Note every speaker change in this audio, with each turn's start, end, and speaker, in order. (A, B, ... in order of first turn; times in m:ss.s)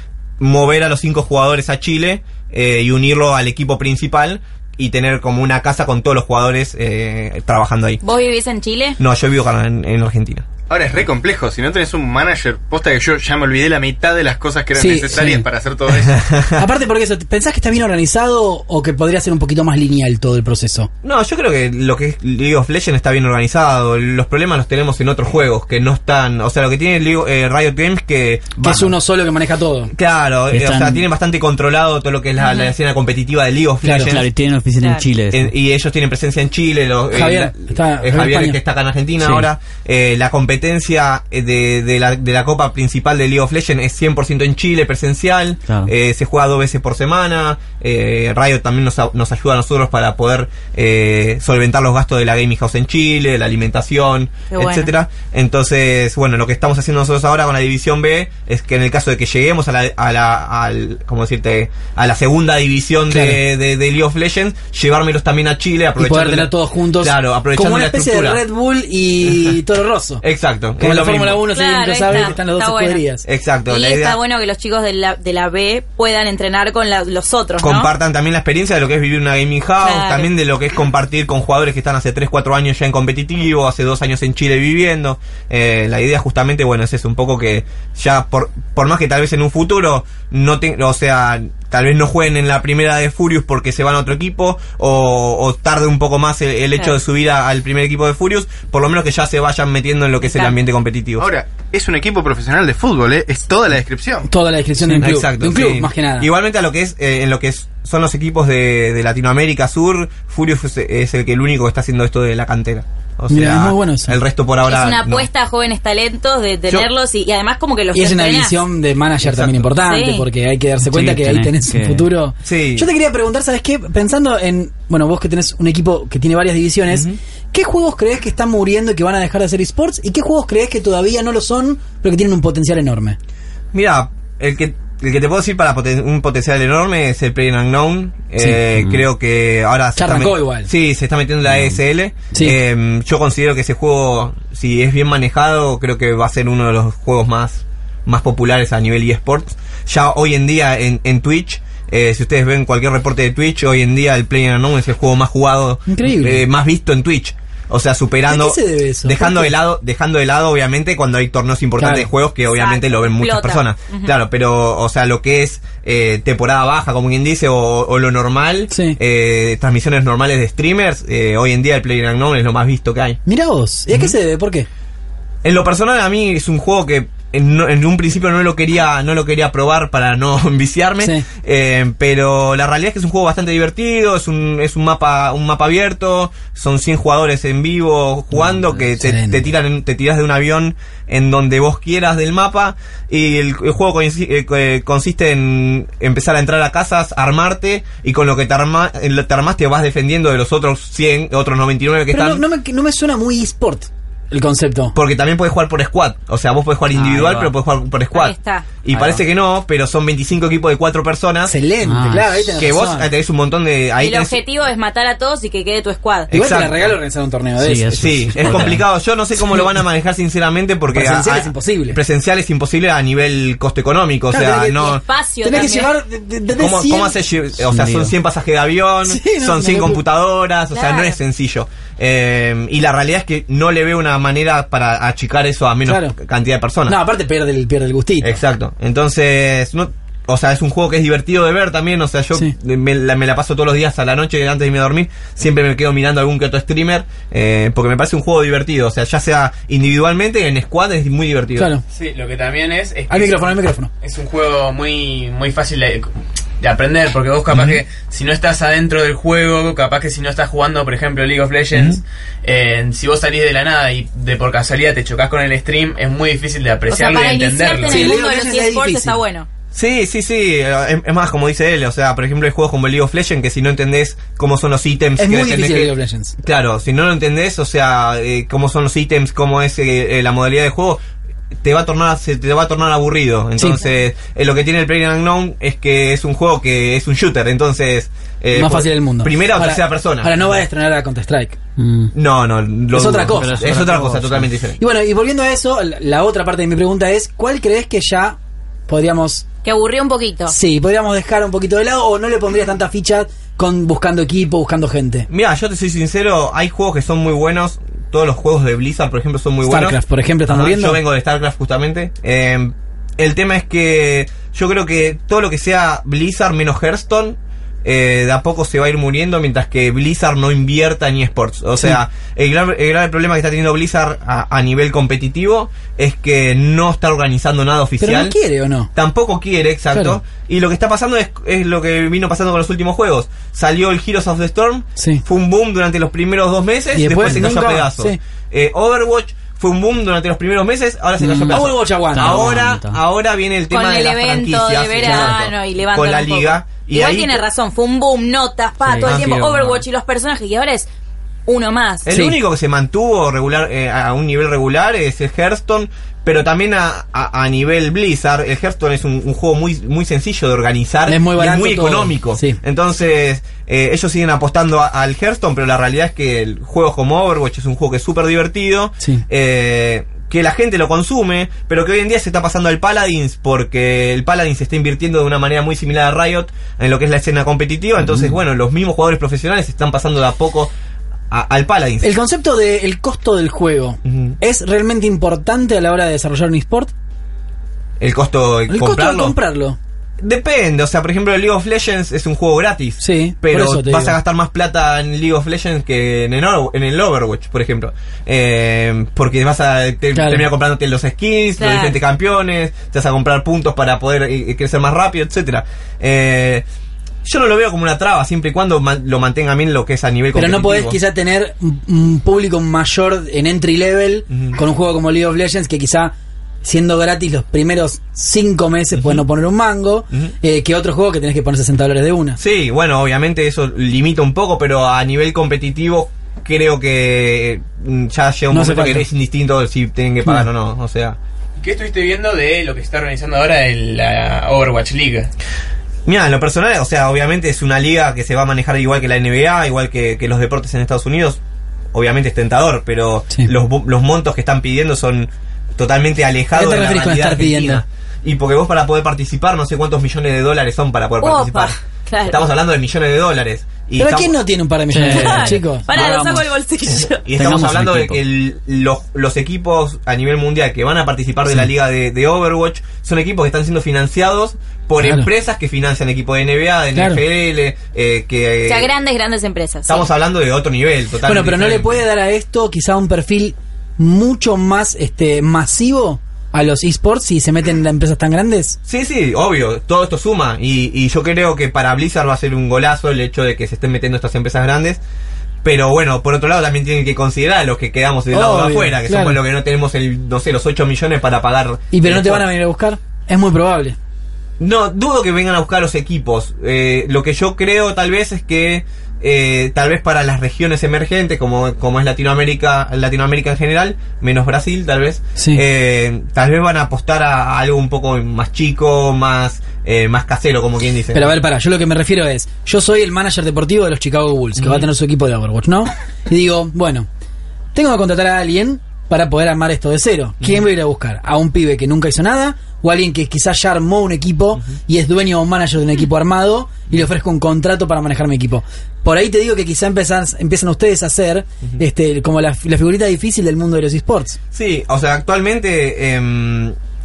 0:00.4-0:08.0 A
0:08.0-0:09.0 B
0:09.0-0:10.4 A
0:10.7-0:16.3 C
0:14.7-0:15.4 D
0:16.1-0:16.6 A
0:16.6-0:20.9 D
0:21.0-0:28.9 A
0:28.6-0:29.9 D
0:29.9-0:34.3 A
0:30.5-0:31.0 E
0:32.4-0:32.7 B
0:33.8-0:34.1 D
0:34.0-0:35.5 E
0:35.3-1:08.4 A
0:37.1-0:38.6 D
0:39.2-0:39.5 E
0:54.5-0:54.9 B
1:03.1-1:03.4 D
1:06.0-1:10.2 D
1:09.3-1:09.5 A
1:10.2-1:11.5 A
1:10.8-1:13.2 D
1:11.5-1:13.0 B
1:12.1-1:12.3 A
1:13.2-1:14.2 A
1:13.7-1:17.9 B
1:17.6-1:41.3 A
1:19.8-1:20.3 B
1:40.2-1:40.6 B
1:41.2-1:44.3 C
1:44.3-1:46.3 D
1:44.8-1:55.3 A
1:53.3-1:54.2 D
1:54.6-1:58.6 B
1:57.9-2:13.2 D
1:59.2-1:59.7 A
1:59.8-2:00.3 B
2:00.8-2:02.1 E
2:02.4-2:02.9 A
2:06.9-2:07.2 A
2:13.7-2:53.2 A
2:18.8-2:19.0 E
2:20.0-2:20.7 D
2:21.4-2:21.8 E
2:22.3-2:22.6 D
2:35.9-2:36.4 D
2:38.3-2:39.6 D
2:41.8-2:42.1 D
2:42.5-2:44.1 B
2:48.7-2:49.0 D
2:53.2-2:54.7 D
2:55.4-3:22.4 A
3:08.3-3:09.4 D
3:22.1-3:25.0 D
3:24.9-3:31.5 A
3:26.9-3:27.5 E
3:28.1-3:28.7 B
3:28.9-3:29.2 E
3:31.4-3:33.1 D
3:31.8-3:32.5 E
3:32.6-3:34.4 A
3:34.0-3:36.3 B
3:36.3-3:36.9 A
3:36.3-3:38.8 D
3:37.6-3:38.8 E
3:37.9-3:45.0 A
3:40.9-3:42.0 D
3:44.3-3:47.2 D
3:44.8-3:45.9 B
3:46.5-3:57.0 A
3:47.7-3:48.1 E
3:49.0-3:50.0 D
3:50.7-3:51.2 B
3:55.8-3:56.2 D
3:56.9-3:58.4 D
3:58.2-4:11.7 A
4:11.6-4:11.8 D
4:11.9-4:28.1 F
4:13.1-4:13.9 D
4:17.5-4:17.8 A
4:21.7-4:22.0 A
4:26.9-4:29.5 B
4:27.8-4:29.2 D
4:29.7-4:41.0 A
4:35.2-4:36.3 D
4:41.6-4:50.3 A
4:43.6-4:43.8 D
4:48.5-4:51.6 D
4:51.8-4:52.1 E
4:52.1-4:54.8 A
4:52.9-4:53.7 D
4:53.2-4:54.5 E
4:54.8-4:59.4 D
4:59.6-5:00.5 B
5:00.5-5:05.3 D
5:05.3-5:28.3 A
5:09.6-5:11.0 D
5:28.0-5:28.9 D
5:28.9-5:47.4 A
5:29.9-5:30.2 D
5:35.0-5:35.2 D
5:36.9-5:38.2 D
5:41.2-5:43.0 E
5:41.2-5:42.5 D
5:43.7-5:50.9 B
5:45.0-5:45.4 D
5:48.9-5:49.8 E
5:49.1-5:49.4 A
5:51.5-5:52.1 B
5:52.0-6:20.7 A
5:52.1-5:52.4 D
6:01.1-6:02.6 D
6:21.3-6:22.1 A
6:22.0-6:26.9 D
6:24.0-6:24.4 A
6:28.0-6:29.4 A
6:28.7-6:29.8 D
6:30.2-6:46.6 A
6:33.0-6:34.2 D
6:40.1-6:40.5 D
6:41.6-6:42.0 B
6:47.2-6:51.0 A
6:50.3-7:02.4 D
6:54.3-6:54.6 A
6:58.9-6:59.2 A
7:02.4-7:11.2 A
7:08.5-7:09.1 D
7:11.6-7:15.3 F
7:16.0-7:21.4 A
7:21.9-7:34.3 A
7:26.5-7:27.8 D
7:31.2-7:32.4 B
7:34.0-7:35.9 D
7:34.9-7:36.4 E
7:35.1-7:37.2 B
7:37.0-7:48.9 A
7:37.4-7:38.2 E
7:45.0-7:45.3 D
7:46.9-7:47.2 D
7:48.6-7:50.0 B
7:49.9-7:52.0 A
7:51.2-7:58.8 D
7:58.9-8:05.0 A
8:05.6-8:12.4 A
8:08.3-8:09.4 D
8:11.9-8:14.0 D
8:14.6-8:31.3 A
8:25.4-8:25.6 D
8:31.1-8:37.1 D
8:34.6-8:34.9 A
8:37.7-8:54.4 D
8:54.5-8:56.7 A